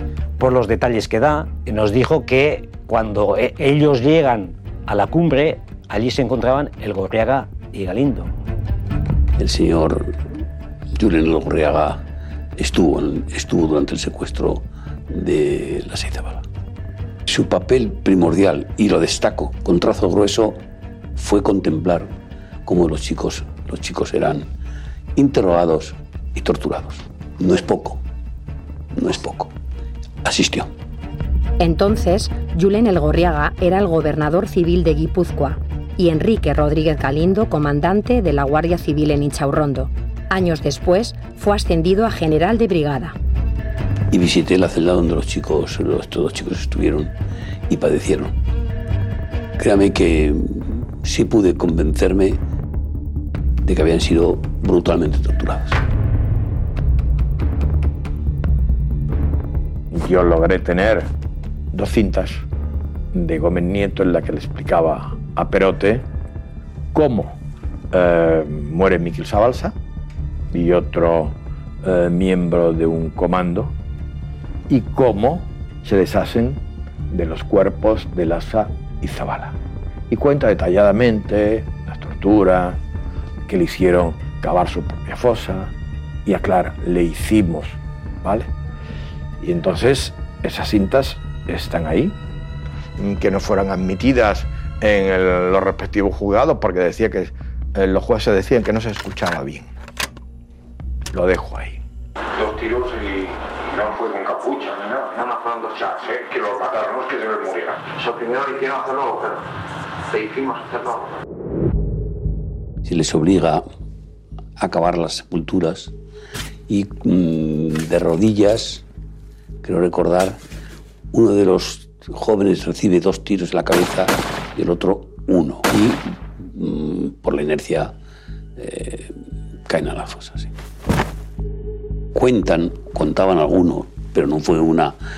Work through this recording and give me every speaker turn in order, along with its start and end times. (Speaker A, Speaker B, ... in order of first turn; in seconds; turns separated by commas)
Speaker A: 0.4-8.3, Speaker B: 9.4-10.1, Speaker B: 10.9-12.0, Speaker B: 12.6-16.4, Speaker B: 17.3-20.6, Speaker B: 21.1-22.1, Speaker B: 22.6-24.5, Speaker B: 25.1-28.0, Speaker B: 28.9-29.5, Speaker B: 30.2-30.7, Speaker C: 31.6-43.1, Speaker B: 44.1-47.1, Speaker B: 47.7-48.3, Speaker B: 49.6-52.4, Speaker B: 53.6-55.8, Speaker D: 59.9-61.1, Speaker D: 61.7-62.4, Speaker D: 63.1-66.1, Speaker D: 66.9-67.4, Speaker D: 67.9-69.8, Speaker D: 70.5-73.7, Speaker D: 74.7-79.5, Speaker D: 80.1-82.8, Speaker D: 83.5-85.7, Speaker D: 86.2-88.5, Speaker D: 89.4-92.2, Speaker D: 93.0-99.7, Speaker D: 101.1-101.8, Speaker E: 102.3-109.5, Speaker E: 110.1-111.2, Speaker B: 112.8-113.6, Speaker B: 114.6-115.9, Speaker B: 116.7-118.8, Speaker B: 119.6-120.4, Speaker B: 121.1-127.9, Speaker B: 128.6-129.1, Speaker B: 129.7-130.5, Speaker B: 132.1-135.0